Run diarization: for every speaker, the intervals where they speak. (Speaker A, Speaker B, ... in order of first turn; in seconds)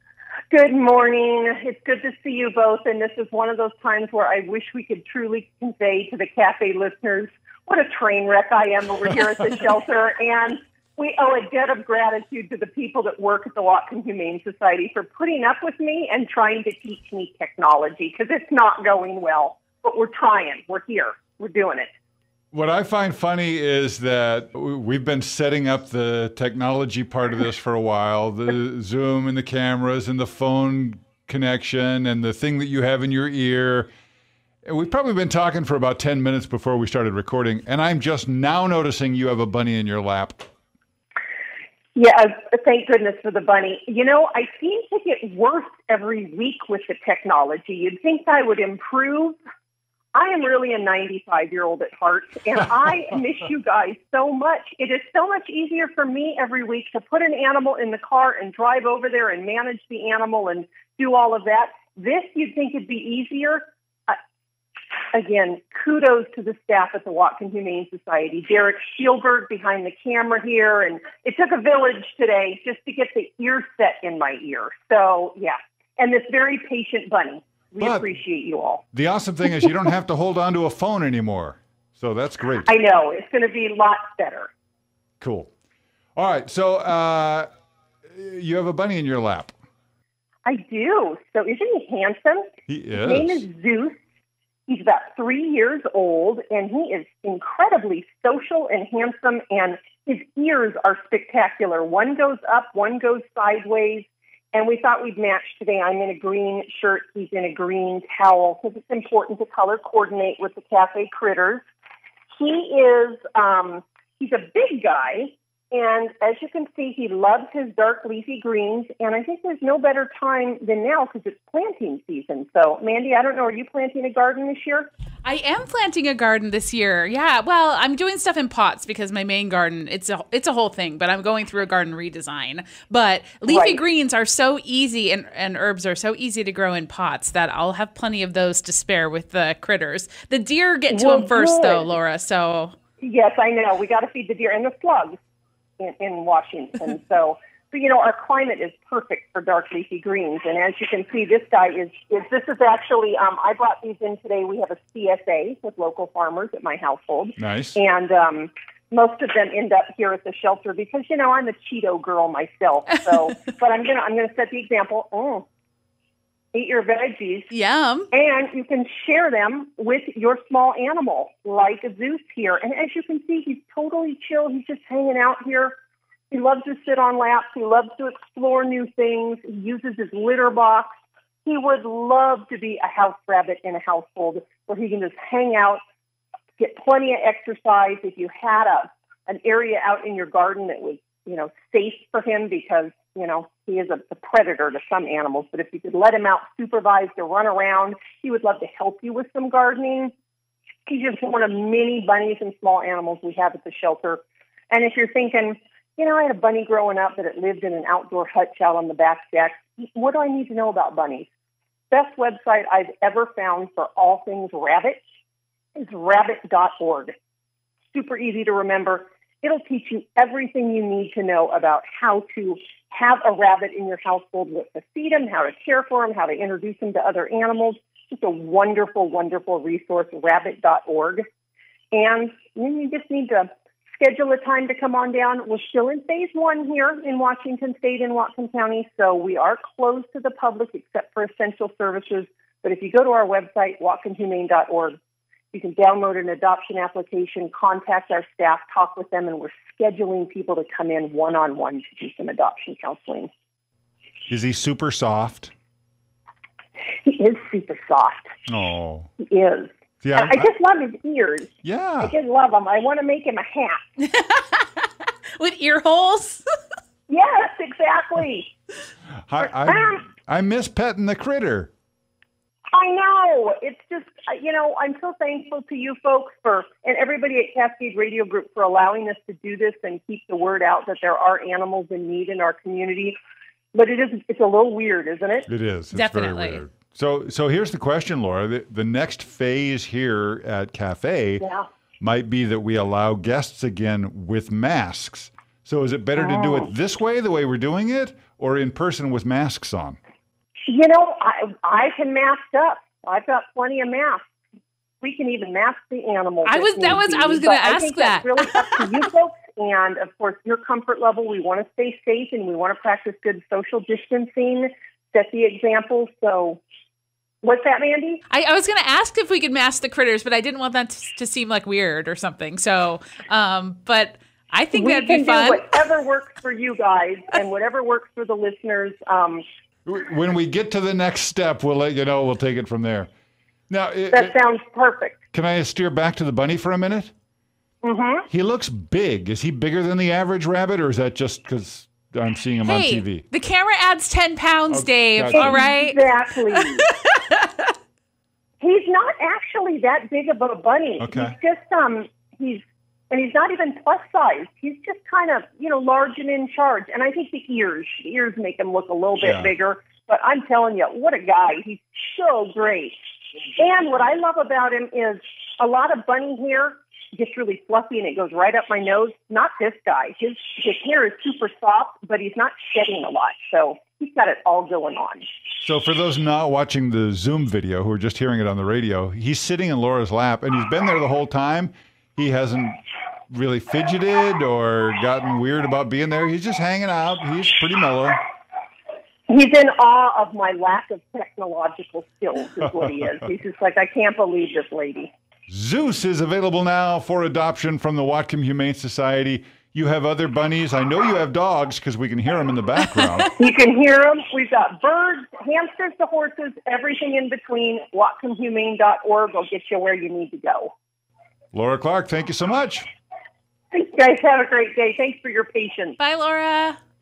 Speaker A: 0.5-21.9, 42.0-49.4, 50.1-64.2, 65.1-78.8, 82.7-84.5, 90.5-94.0, 94.7-111.6, 112.3-124.9, 133.5-133.8, 140.9-141.9, 143.0-145.2, 145.8-165.5, 166.5-167.5, 168.1-175.8, 176.3-180.9, 181.4-185.8, 186.6-200.1, 200.9-211.3, 211.9-215.0, 215.8-217.2, 217.9-231.2, 231.9-245.0, 245.5-253.3, 257.0-258.3, 259.2-263.8, 267.1-268.5, 269.4-270.0, 272.7-283.2, 283.7-285.5, 291.4-291.6, 296.2-296.7, 300.7-304.2, 305.0-316.6, 317.4-318.2, 324.7-329.4, 334.1-335.2, 337.8-338.3, 345.3-346.9, 348.6-363.0, 363.6-375.3, 389.3-395.1, 403.4-410.7, 413.7-416.0
Speaker B: 22.5-33.9, 34.6-40.5, 77.8-78.1, 78.9-82.7, 85.2-85.5, 86.2-87.5, 88.1-89.5, 92.7-93.5, 157.4-157.8, 254.3-255.5, 258.5-259.1, 260.0-260.5, 261.6-262.1, 269.3-271.7, 285.5-291.4, 292.0-300.0, 329.9-333.1, 333.7-334.3, 335.3-337.1, 338.3-343.2, 344.7-345.6, 351.0-351.4, 359.2-359.5, 375.6-388.2, 395.5-403.3, 411.5-412.9
Speaker C: 125.2-142.7, 167.5-168.1, 264.1-266.4, 285.9-286.6, 306.4-308.9, 318.3-325.6, 342.6-347.7, 416.0-416.8